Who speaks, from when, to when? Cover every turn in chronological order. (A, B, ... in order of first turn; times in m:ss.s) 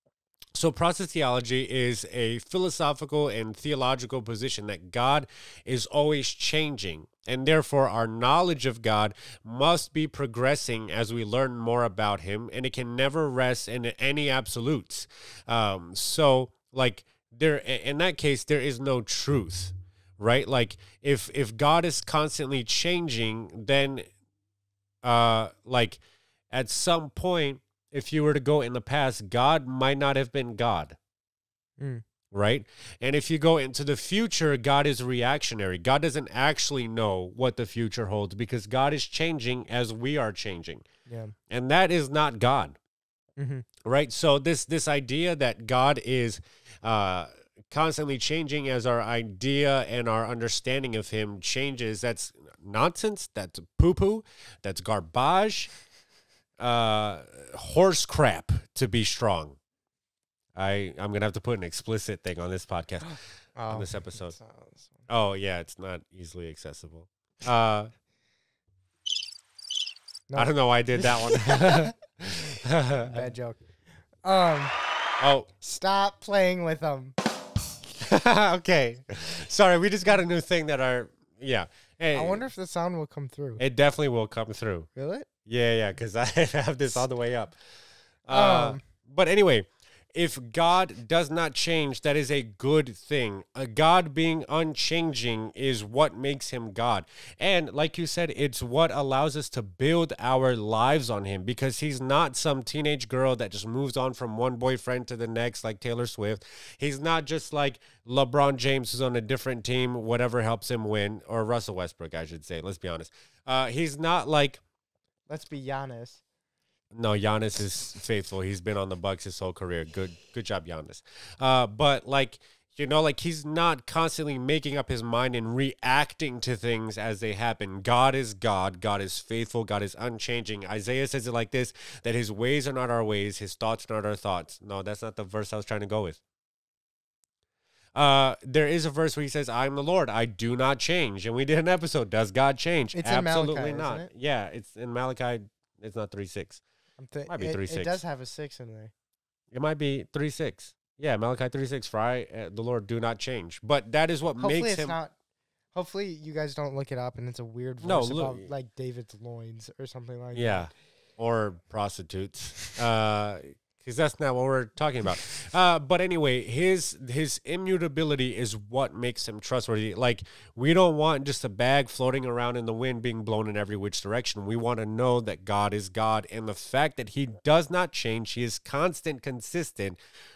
0:00.5-0:24.1 A
0:25.0-0:31.0 A
0:32.3-0:40.8 A
0:41.1-0:41.3 B
0:41.5-0:42.8 A
0:43.4-0:43.6 B
0:43.8-0:55.7 A
0:56.6-0:59.6 A
1:00.5-1:04.4 A
1:03.6-1:05.0 B
1:05.1-1:07.9 A
1:10.3-1:11.9 B
1:10.4-1:13.3 A
1:13.1-1:13.6 B
1:14.2-1:14.8 B
1:15.2-1:15.5 A
1:15.6-1:17.2 B
1:18.0-1:22.4 A
1:22.1-1:23.6 B
1:23.6-1:24.9 A
1:25.0-1:25.3 B
1:25.4-1:27.6 A
1:28.2-1:54.6 A
1:28.3-1:28.8 B
1:55.3-1:56.2 B
1:56.9-2:16.2 A
2:17.9-2:26.6 A
2:22.9-2:24.1 B
2:27.0-2:28.9 B
2:27.3-2:28.0 A
2:29.5-2:35.0 A
2:34.4-2:35.1 B
2:35.7-2:40.7 B
2:37.8-2:38.5 A
2:40.3-3:00.0 A